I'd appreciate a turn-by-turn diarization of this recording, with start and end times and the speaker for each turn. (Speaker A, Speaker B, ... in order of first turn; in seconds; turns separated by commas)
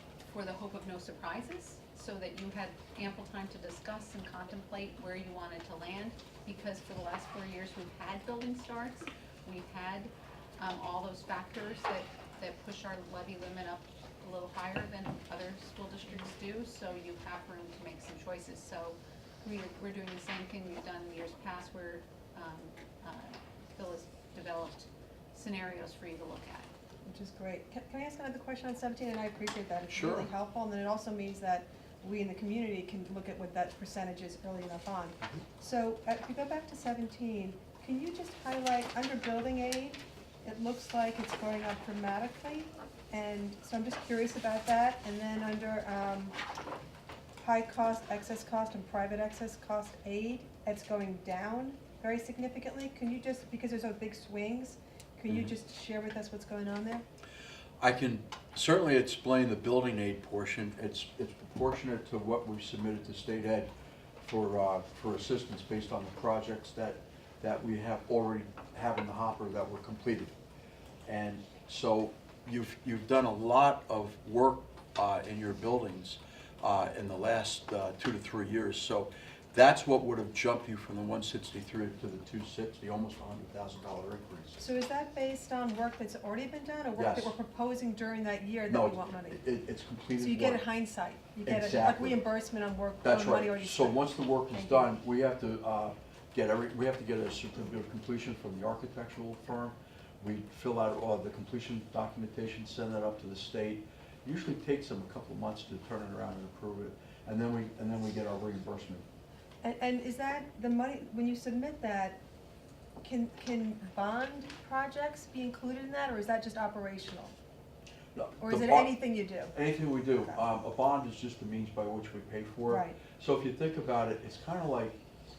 Speaker A: 0.3-26.7, Speaker B: 27.0-46.4, Speaker C: 29.9-30.3, Speaker B: 47.4-57.0, Speaker C: 55.3-55.5, Speaker C: 57.8-63.7, Speaker C: 64.2-70.3, Speaker C: 71.0-84.6, Speaker B: 84.6-89.4, Speaker C: 86.9-87.3, Speaker C: 88.7-90.7, Speaker B: 90.2-94.9, Speaker C: 91.4-92.3, Speaker C: 93.0-109.0, Speaker B: 109.6-112.2, Speaker B: 113.0-117.3, Speaker C: 118.1-125.0, Speaker B: 118.4-120.5, Speaker B: 122.6-123.0